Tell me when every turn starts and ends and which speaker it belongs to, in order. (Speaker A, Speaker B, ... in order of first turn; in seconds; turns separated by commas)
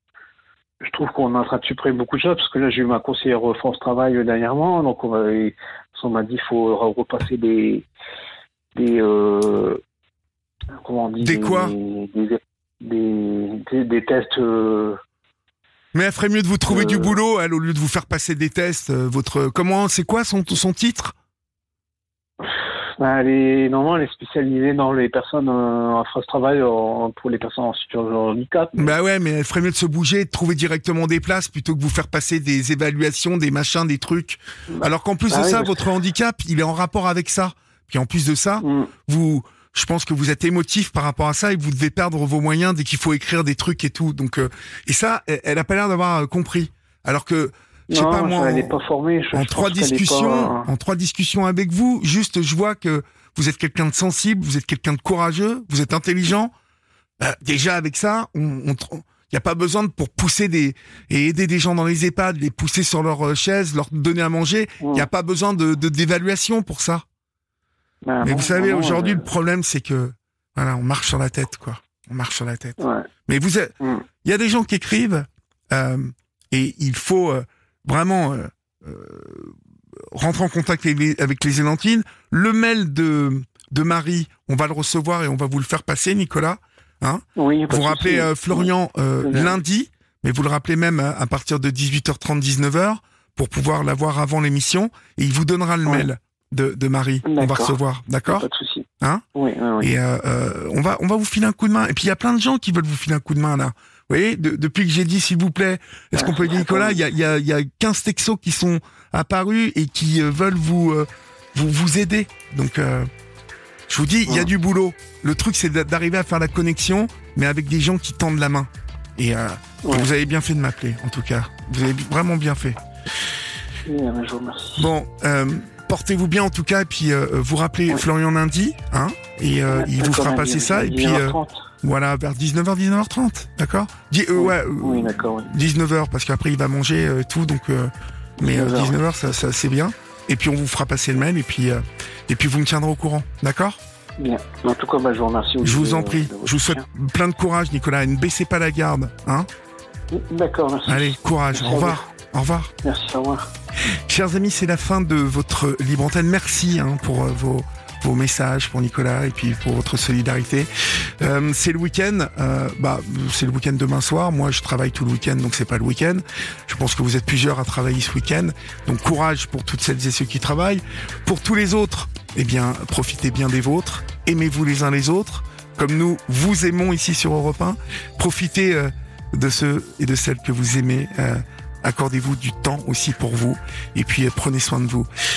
Speaker A: 0.8-7.8, Speaker A: 8.7-9.8, Speaker A: 10.8-15.0, Speaker B: 11.2-11.7, Speaker B: 15.9-21.1, Speaker A: 16.7-17.1, Speaker A: 22.4-28.9, Speaker B: 28.8-48.7, Speaker A: 34.7-35.8, Speaker A: 38.6-38.9, Speaker A: 47.9-50.7, Speaker B: 49.3-56.5, Speaker B: 57.2-67.0, Speaker A: 64.8-65.1, Speaker A: 68.0-69.3, Speaker B: 68.2-79.5, Speaker A: 72.8-73.1, Speaker A: 73.8-74.0, Speaker B: 80.1-98.5, Speaker A: 87.3-88.7, Speaker A: 89.2-89.6, Speaker A: 97.2-99.9, Speaker B: 99.8-113.1, Speaker A: 106.1-107.0, Speaker B: 113.9-122.8, Speaker A: 119.8-120.1, Speaker A: 123.8-124.9, Speaker B: 124.8-143.8, Speaker A: 129.7-131.7, Speaker A: 134.3-135.5, Speaker A: 138.4-138.9, Speaker A: 144.2-146.8, Speaker B: 145.6-149.5, Speaker A: 150.1-152.0, Speaker B: 150.9-152.7, Speaker A: 152.8-153.5, Speaker B: 153.8-185.1